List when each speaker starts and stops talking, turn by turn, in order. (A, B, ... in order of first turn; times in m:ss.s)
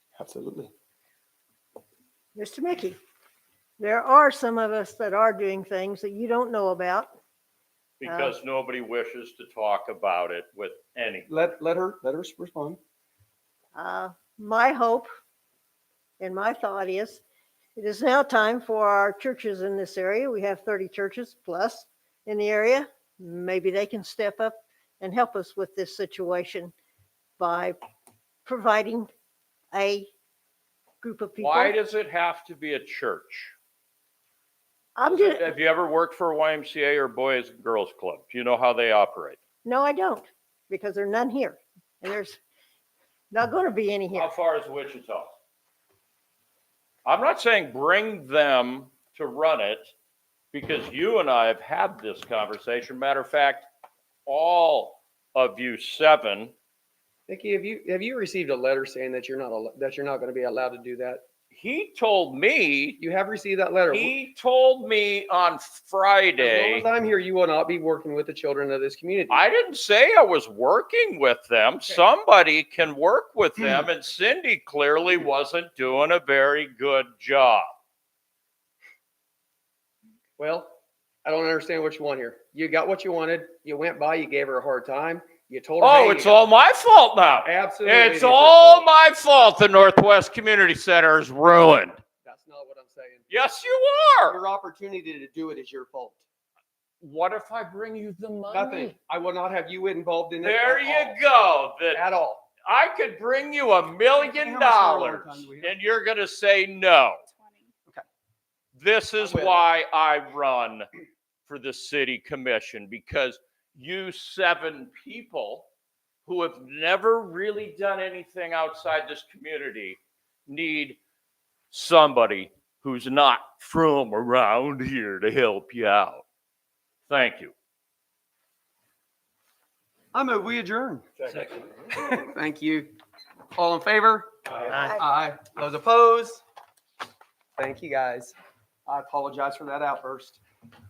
0:00.2-0:00.7 A
0:02.4-0:03.0 B
0:03.8-0:07.1 B
0:08.0-0:11.3 C
0:08.0-0:08.3 B
0:11.3-0:12.8 A
0:13.8-0:15.1 B
0:16.2-0:17.2 B
0:17.8-0:26.7 B
0:27.4-0:27.8 B
0:28.4-0:29.1 B
0:29.7-0:30.1 B
0:31.0-0:31.8 B
0:31.4-0:33.5 C
0:35.0-0:35.5 B
0:35.0-0:39.4 C
0:39.6-0:42.4 B
0:43.3-0:44.3 B
0:44.1-0:45.3 C
0:47.0-0:49.9 C
0:50.5-0:53.7 C
0:54.2-0:56.5 C
0:57.3-1:01.2 A
1:01.5-1:03.0 C
1:03.0-1:04.1 A
1:03.9-1:06.8 C
1:06.4-1:09.5 A
1:09.3-1:17.7 C
1:20.4-1:26.4 A
1:25.8-1:32.0 C
1:27.4-1:28.9 A
1:32.2-1:33.2 A
1:33.3-1:34.4 C
1:34.3-1:36.2 A
1:37.0-1:38.9 C
1:38.5-1:41.2 A
1:40.4-1:42.0 C
1:41.9-1:42.4 A
1:42.6-1:47.2 C
1:44.2-1:45.7 A
1:48.8-1:50.8 C
1:49.2-1:49.6 A
1:51.5-1:55.7 C
1:56.2-2:01.0 C
2:01.7-2:06.2 C
2:07.1-2:07.5 C
2:10.1-2:11.4 A
2:11.3-2:11.7 C
2:11.9-2:12.9 A
2:13.6-2:16.4 A
2:17.6-2:18.3 A
2:18.8-2:20.4 A